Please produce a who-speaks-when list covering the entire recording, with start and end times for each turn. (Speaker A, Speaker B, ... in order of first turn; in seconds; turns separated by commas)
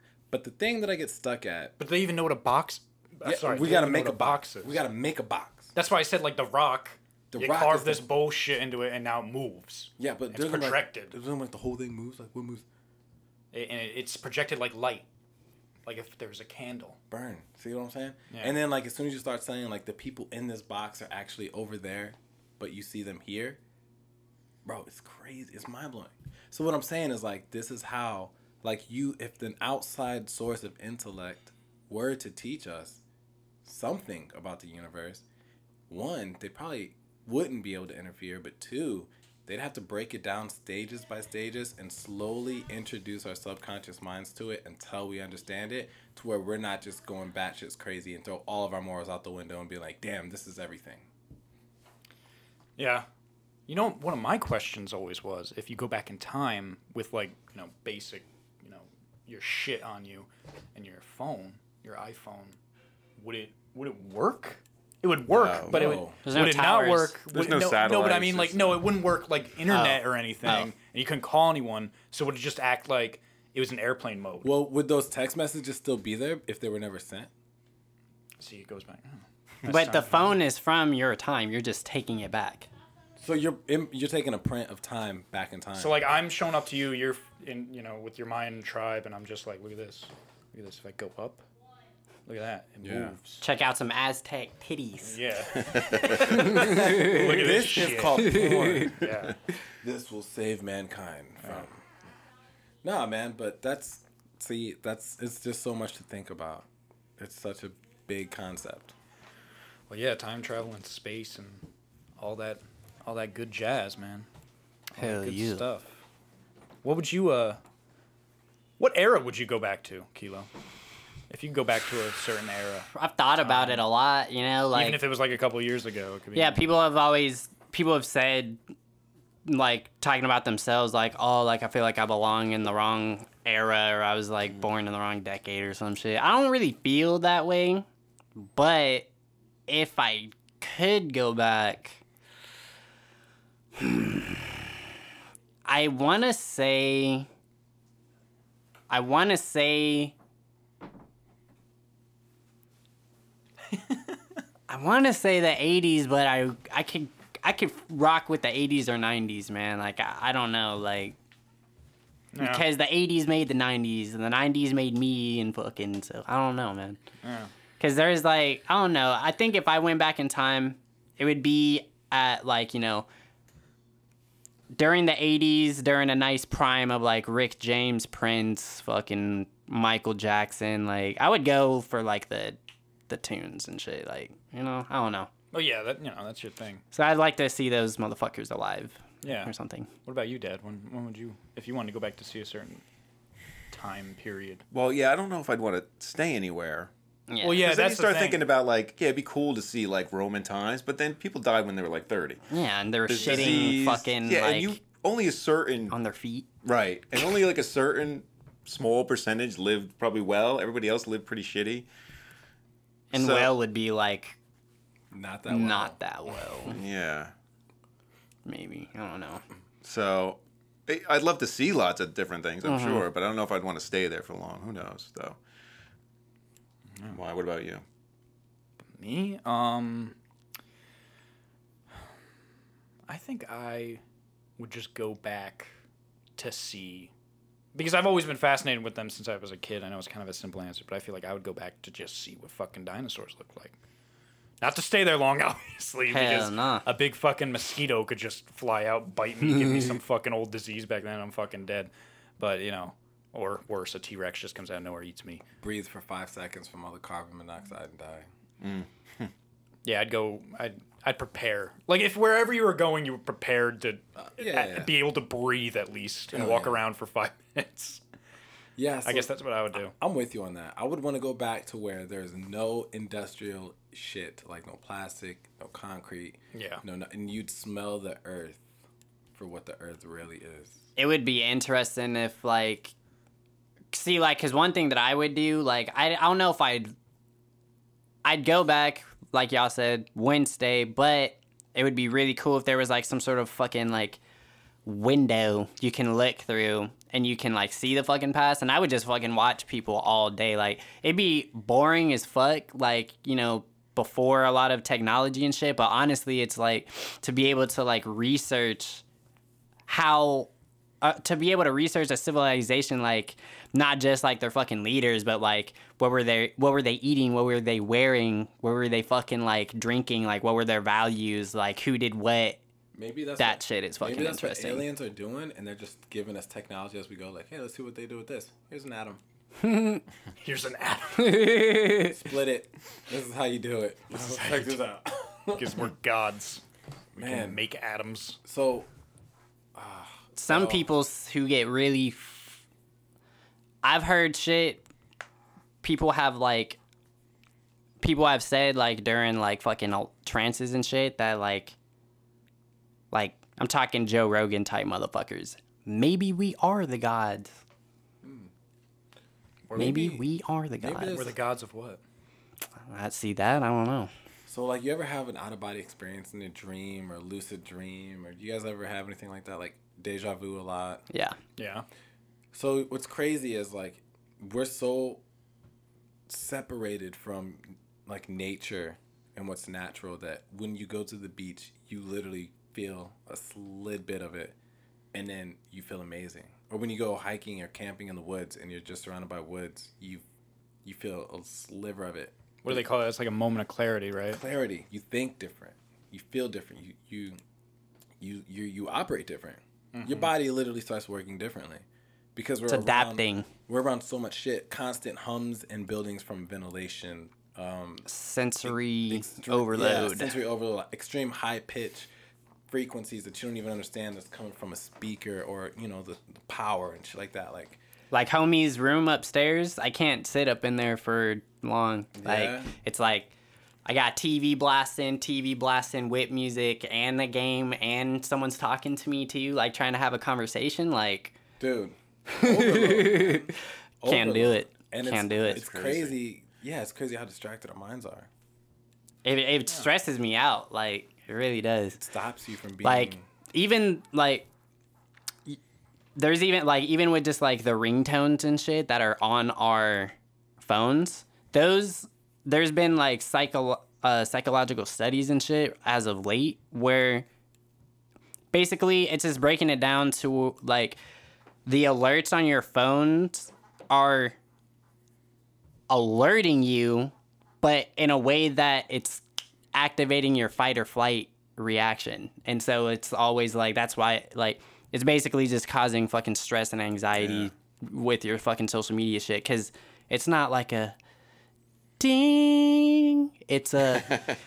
Speaker A: 0.3-1.7, Speaker B: 1.8-4.8, Speaker A: 3.2-5.7, Speaker B: 5.7-11.1, Speaker A: 7.3-8.1, Speaker A: 10.0-12.6, Speaker B: 13.5-15.1, Speaker B: 15.8-17.0, Speaker A: 17.1-23.6, Speaker B: 18.3-18.6, Speaker A: 24.6-33.0, Speaker A: 33.6-35.2, Speaker A: 35.9-51.1, Speaker B: 52.8-53.0, Speaker B: 53.7-62.6, Speaker B: 63.2-74.5, Speaker C: 65.3-65.8, Speaker A: 65.7-66.2, Speaker D: 65.7-67.2, Speaker C: 67.3-68.8, Speaker D: 69.7-70.7, Speaker A: 74.4-77.3, Speaker B: 78.4-80.4, Speaker D: 79.6-82.7, Speaker A: 83.2-86.0, Speaker B: 85.8-91.4, Speaker B: 92.3-93.4, Speaker A: 92.8-93.2, Speaker D: 93.4-95.2, Speaker B: 95.0-99.3, Speaker C: 95.5-96.5, Speaker D: 96.4-97.0, Speaker A: 96.5-99.1, Speaker A: 99.8-101.8, Speaker A: 102.8-108.9, Speaker B: 109.9-111.6, Speaker B: 112.2-114.3, Speaker B: 114.9-116.0, Speaker D: 115.0-115.7, Speaker B: 116.8-117.6, Speaker B: 118.8-120.5, Speaker B: 121.3-123.8, Speaker D: 122.9-125.0, Speaker B: 124.7-126.6, Speaker D: 126.3-128.6, Speaker D: 129.4-137.8, Speaker D: 138.4-139.1, Speaker D: 139.7-142.0, Speaker D: 143.8-144.7, Speaker D: 145.6-147.3, Speaker D: 148.9-150.1, Speaker B: 153.7-154.2, Speaker D: 154.7-161.2, Speaker B: 162.3-162.6, Speaker D: 162.4-167.0, Speaker B: 167.2-167.5, Speaker D: 167.8-173.1, Speaker D: 174.7-182.6, Speaker D: 183.1-185.3, Speaker B: 185.5-186.8, Speaker D: 186.9-189.9, Speaker B: 189.2-189.5, Speaker B: 190.0-192.8, Speaker B: 193.7-194.6, Speaker C: 194.7-196.9, Speaker D: 197.3-197.7, Speaker B: 197.4-198.4, Speaker C: 197.6-202.4, Speaker D: 202.5-204.8, Speaker C: 203.1-205.9, Speaker B: 203.2-203.7, Speaker D: 205.9-206.4, Speaker C: 206.6-211.9, Speaker D: 213.1-214.4, Speaker C: 213.1-213.5, Speaker A: 215.1-216.0, Speaker D: 215.5-216.8, Speaker C: 216.7-217.3, Speaker D: 218.4-219.4, Speaker C: 219.8-225.4, Speaker D: 222.6-223.1, Speaker C: 227.1-227.8, Speaker B: 228.9-230.2, Speaker B: 233.1-234.0, Speaker B: 234.6-235.7, Speaker B: 236.4-237.1, Speaker B: 237.7-243.8, Speaker B: 244.6-255.4, Speaker D: 246.1-246.8, Speaker A: 255.6-258.3, Speaker C: 258.6-259.3, Speaker B: 259.8-268.0, Speaker A: 264.3-264.9, Speaker A: 266.3-266.8, Speaker A: 268.8-269.3, Speaker B: 269.0-269.9, Speaker A: 269.9-278.7, Speaker B: 276.5-276.8, Speaker A: 279.3-280.8, Speaker D: 280.9-282.9, Speaker D: 283.9-286.9, Speaker D: 288.2-294.2, Speaker D: 294.8-309.0, Speaker D: 309.9-310.5, Speaker D: 311.0-322.6, Speaker A: 322.9-329.2, Speaker D: 323.4-324.9, Speaker D: 329.6-330.0, Speaker B: 330.4-331.6, Speaker D: 331.2-332.1, Speaker A: 331.9-335.9, Speaker B: 335.5-336.6, Speaker B: 337.1-338.4, Speaker A: 337.2-337.6, Speaker A: 338.4-338.9, Speaker A: 339.7-340.9, Speaker D: 340.4-342.6, Speaker D: 343.8-344.9, Speaker D: 345.8-346.8, Speaker D: 348.0-351.7, Speaker D: 353.1-357.6, Speaker A: 358.2-358.5, Speaker B: 359.7-360.1, Speaker A: 359.7-360.2, Speaker D: 359.7-361.2, Speaker A: 360.8-361.4, Speaker B: 361.1-362.0, Speaker D: 362.8-364.1, Speaker A: 364.5-371.0, Speaker D: 371.1-371.4, Speaker B: 371.6-371.9, Speaker A: 372.5-375.2, Speaker A: 376.3-384.6, Speaker A: 385.1-390.2, Speaker A: 390.8-392.8, Speaker B: 392.6-394.4, Speaker A: 394.3-397.4, Speaker A: 398.2-408.1, Speaker B: 399.9-400.3, Speaker D: 402.7-403.5, Speaker D: 408.1-410.3, Speaker A: 408.6-412.1, Speaker A: 412.7-417.8, Speaker D: 418.1-423.3, Speaker A: 422.2-422.7, Speaker D: 423.8-431.4, Speaker A: 431.6-438.3, Speaker D: 432.3-435.6, Speaker C: 435.5-436.2, Speaker D: 439.2-442.0, Speaker A: 442.0-443.2, Speaker D: 442.8-444.5, Speaker D: 446.1-457.2, Speaker D: 458.5-461.0, Speaker D: 461.6-464.4, Speaker D: 465.9-481.0, Speaker C: 477.1-477.5, Speaker D: 482.0-484.2, Speaker C: 483.9-484.4